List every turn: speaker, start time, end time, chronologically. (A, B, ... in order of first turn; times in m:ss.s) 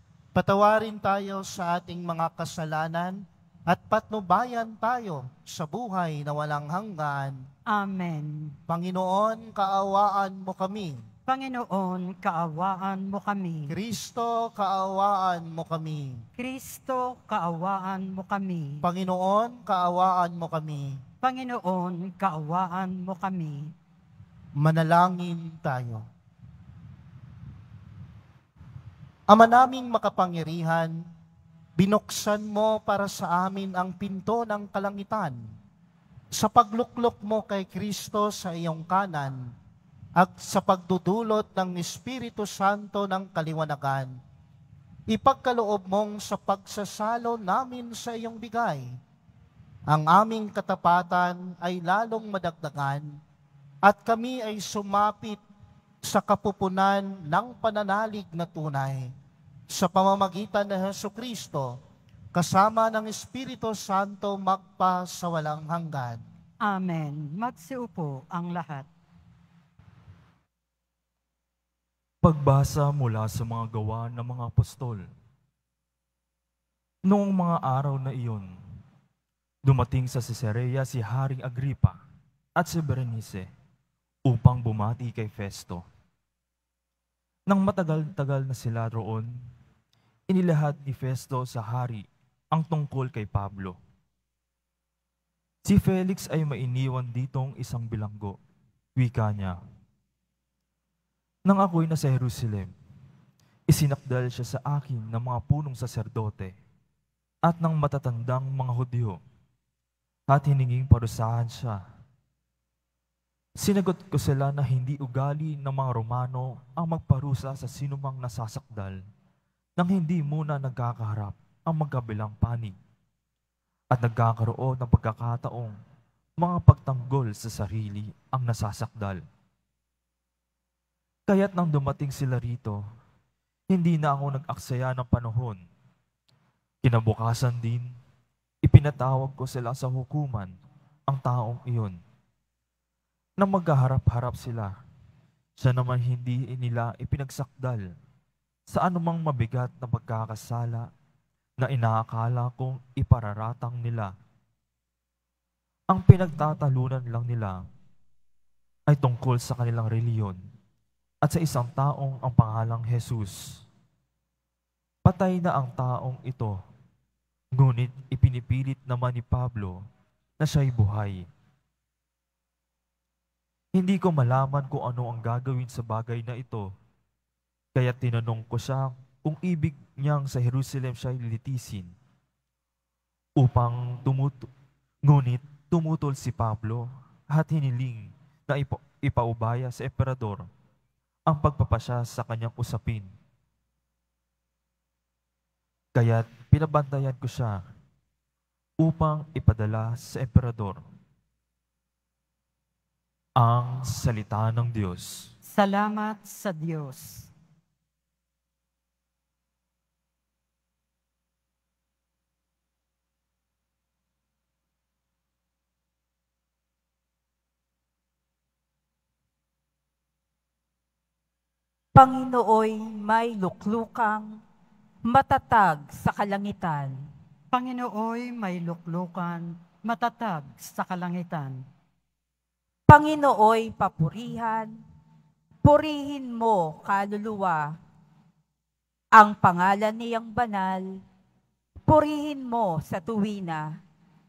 0:00.3-0:07.4 A
0:07.7-0:08.6 B
0:08.7-0:11.0 A
0:11.3-0:13.7 B
0:13.7-0:16.2 A
0:16.4-0:18.8 B
0:18.8-0:21.0 A
0:21.2-0:23.7 B
0:24.6-0:26.0 A
0:29.3-0:31.0 A
0:31.8-0:35.4 A
0:36.3-0:39.5 A
0:40.2-0:44.2 A
0:45.1-0:48.9 A
0:49.9-0:53.2 A
0:53.8-0:55.4 A
0:56.0-0:59.1 A
0:59.7-1:01.8 A
1:02.3-1:06.2 A
1:06.6-1:08.9 B
1:12.2-1:15.0 C
1:17.1-1:18.5 C
1:19.6-1:22.0 C
1:22.6-1:23.4 C
1:24.3-1:25.8 C
1:27.5-1:29.3 C
1:30.3-1:33.8 C
1:35.6-1:38.4 C
1:39.0-1:39.6 C
1:41.5-1:42.7 C
1:43.7-1:46.5 C
1:47.4-1:49.2 C
1:50.3-1:51.8 C
1:53.6-1:59.0 C
1:59.8-2:02.7 C
2:03.9-2:05.7 C
2:06.4-2:09.2 C
2:11.3-2:12.8 C
2:13.7-2:15.6 C
2:16.8-2:17.9 C
2:18.6-2:20.5 C
2:21.1-2:22.0 C
2:23.4-2:24.7 C
2:25.6-2:27.8 C
2:28.7-2:30.9 C
2:31.6-2:34.1 C
2:35.9-2:37.6 C
2:38.9-2:40.4 C
2:41.2-2:43.6 C
2:45.0-2:46.6 C
2:47.5-2:49.8 C
2:50.4-2:51.2 C
2:53.7-2:56.7 C
2:57.7-3:01.9 C
3:03.4-3:04.5 C
3:05.0-3:10.4 C
3:11.3-3:13.1 C
3:16.0-3:17.6 C
3:18.8-3:20.8 C
3:23.4-3:25.3 C
3:25.5-3:27.3 B
3:41.9-3:44.4 D
3:45.0-3:47.0 D
3:47.5-3:51.6 B
3:52.9-3:54.7 D
3:55.6-3:57.7 D
3:59.1-4:00.9 D
4:01.9-4:03.8 D